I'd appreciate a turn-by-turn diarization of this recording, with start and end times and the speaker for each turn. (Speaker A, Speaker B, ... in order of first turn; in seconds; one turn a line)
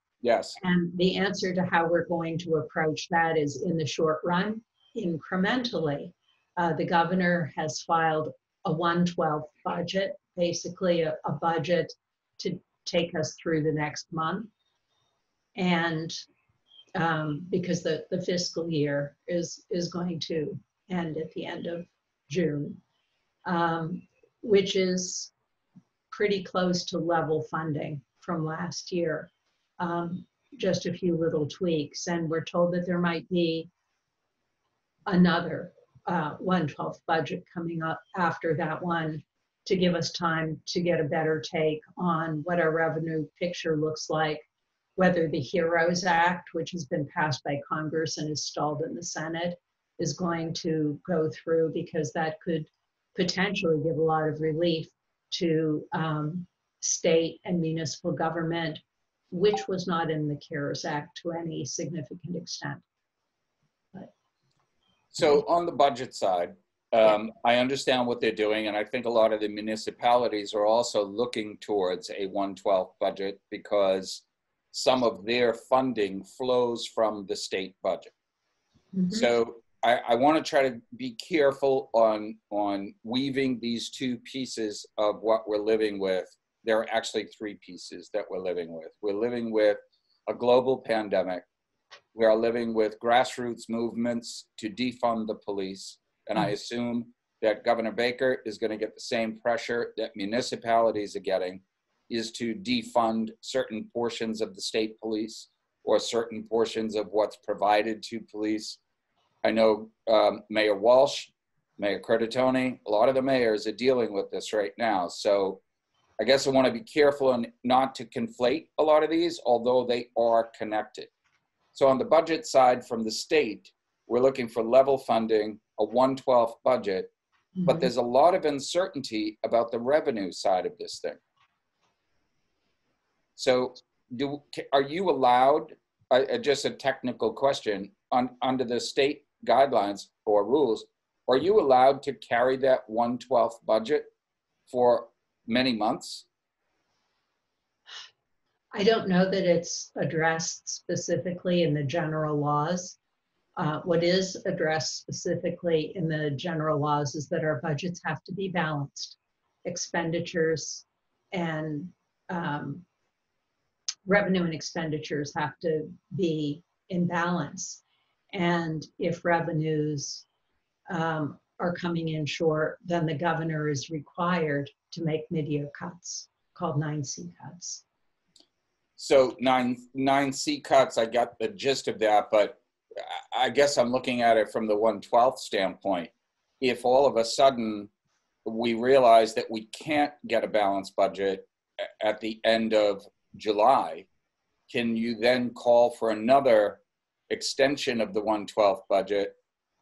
Speaker A: 0.2-0.6
Speaker B: 0.6-14.5
Speaker B: 15.6-16.2
Speaker B: 16.9-22.8
Speaker B: 23.4-25.3
Speaker B: 26.1-33.7
Speaker B: 35.1-44.4
Speaker B: 45.0-62.8
Speaker A: 65.1-78.1
Speaker B: 78.9-79.3
Speaker A: 79.1-91.4
Speaker A: 92.1-108.8
Speaker A: 109.4-115.6
Speaker A: 116.2-121.1
Speaker A: 121.7-127.1
Speaker B: 127.6-127.9
Speaker A: 127.6-131.2
Speaker A: 133.4-144.1
Speaker A: 144.7-146.2
Speaker B: 148.7-153.0
Speaker B: 153.6-162.8
Speaker B: 164.0-170.2
Speaker B: 170.9-177.8
Speaker A: 179.0-187.9
Speaker A: 188.4-194.1
Speaker A: 194.7-199.3